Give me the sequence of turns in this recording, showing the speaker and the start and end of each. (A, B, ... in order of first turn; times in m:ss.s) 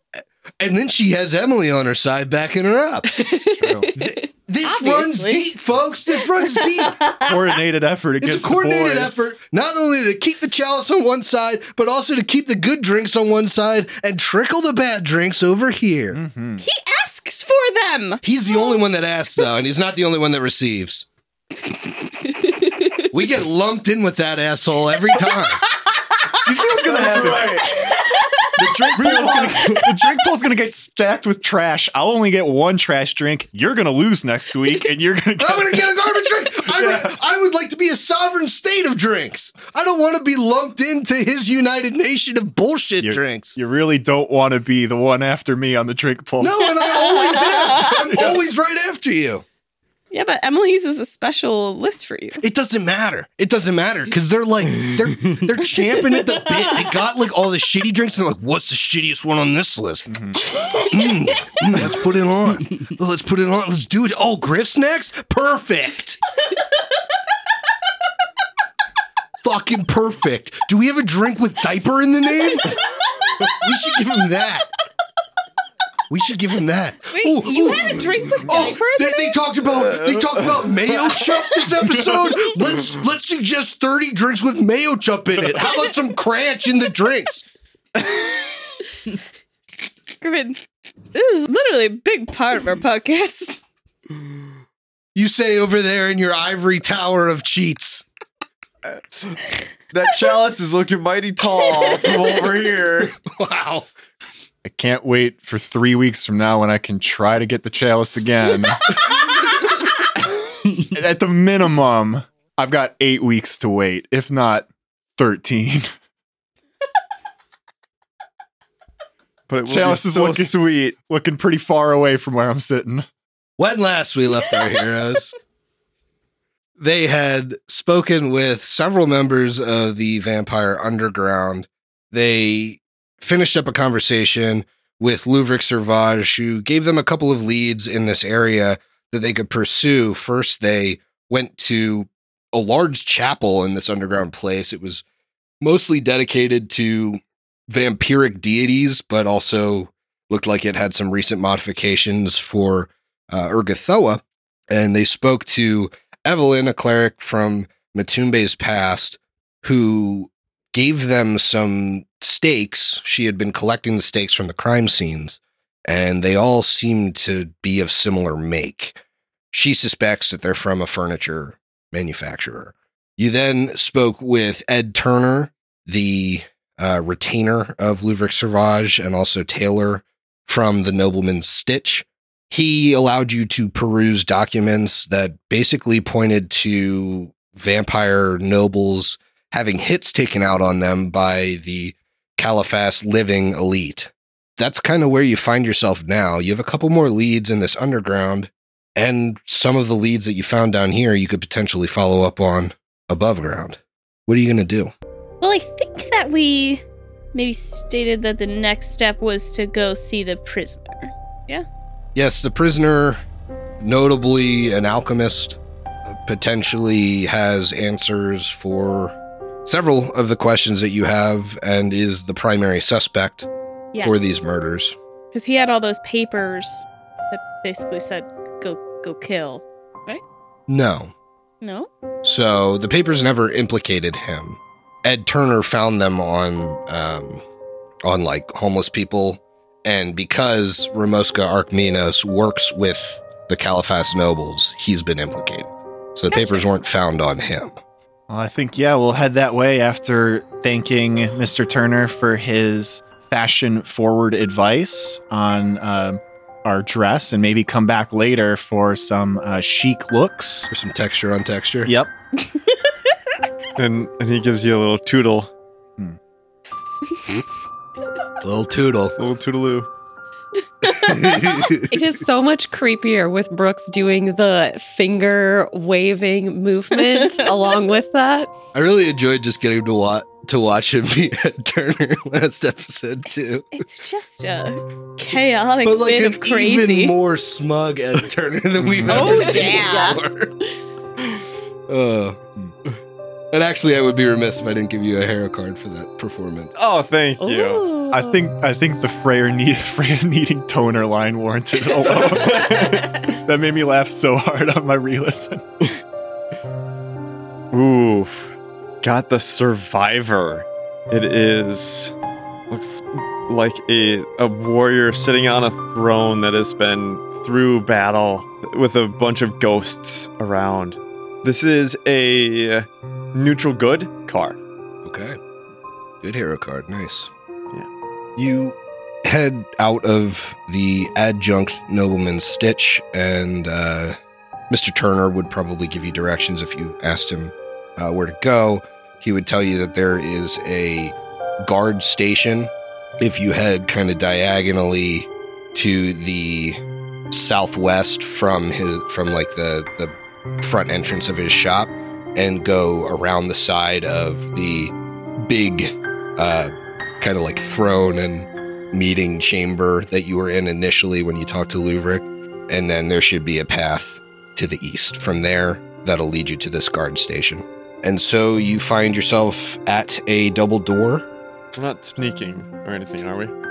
0:00.6-0:03.3 A
0:03.1-0:05.5 B
0:03.5-0:03.9 C
0:03.9-0:07.0 A
0:06.2-0:07.6 B
0:07.2-0:09.3 C
0:08.2-0:16.2 A
0:16.1-0:16.6 C
0:16.6-0:18.7 B
0:18.2-0:21.1 A
0:22.4-0:23.1 B
0:23.1-0:25.6 A
0:26.4-0:27.6 C
0:26.8-0:27.7 D
0:27.6-0:28.5 B
0:28.6-0:29.8 A
0:28.6-0:35.9 C
0:29.0-0:29.8 D
0:35.4-0:43.6 A
0:36.6-0:37.1 C
0:43.0-0:46.6 C
0:46.4-0:49.4 A
0:46.8-0:48.2 B
0:50.1-0:52.4 B
0:52.4-1:00.1 A
1:00.1-1:00.4 C
1:00.7-1:06.2 A
1:09.4-1:12.7 A
1:13.5-1:14.6 A
1:16.1-1:27.4 A
1:17.1-1:19.4 B
1:30.2-1:30.6 B
1:31.1-1:33.6 B
1:35.1-1:38.0 A
1:39.9-1:43.2 D
1:43.2-1:43.9 A
1:44.6-1:49.0 C
1:50.9-1:55.9 C
1:59.5-2:01.0 D
1:59.7-2:03.0 C
2:03.6-2:05.3 A
2:06.8-2:25.0 A
2:25.6-2:49.0 A
2:49.5-3:24.9 A
3:25.4-3:31.6 B
3:32.1-3:33.2 A
3:33.8-3:43.5 A
3:44.0-3:45.0 A
3:45.3-3:50.2 B
3:50.7-3:51.1 A
3:51.6-3:51.9 B
3:52.2-3:57.4 A
3:58.0-4:07.8 A
4:06.3-4:06.7 B
4:08.3-4:20.7 C
4:20.7-4:21.9 A
4:21.8-4:22.1 C
4:23.8-4:25.5 D
4:28.4-4:29.2 A
4:29.2-4:29.9 D
4:30.9-4:31.5 B
4:31.0-4:32.0 A
4:31.9-4:38.5 E
4:37.0-4:37.5 B
4:38.7-4:43.8 A
4:43.7-4:47.1 B
4:45.8-4:50.5 A
4:48.8-4:49.3 C
4:49.0-4:50.3 B
4:51.9-4:52.4 A
4:53.5-4:56.7 A
4:56.8-4:57.9 D
4:58.1-5:05.6 C
5:02.1-5:03.2 D
5:07.7-5:12.1 D
5:12.7-5:24.6 D
5:25.0-5:25.4 A
5:26.2-5:27.3 A
5:28.4-5:34.2 A
5:34.7-6:11.2 A
6:11.7-6:13.5 D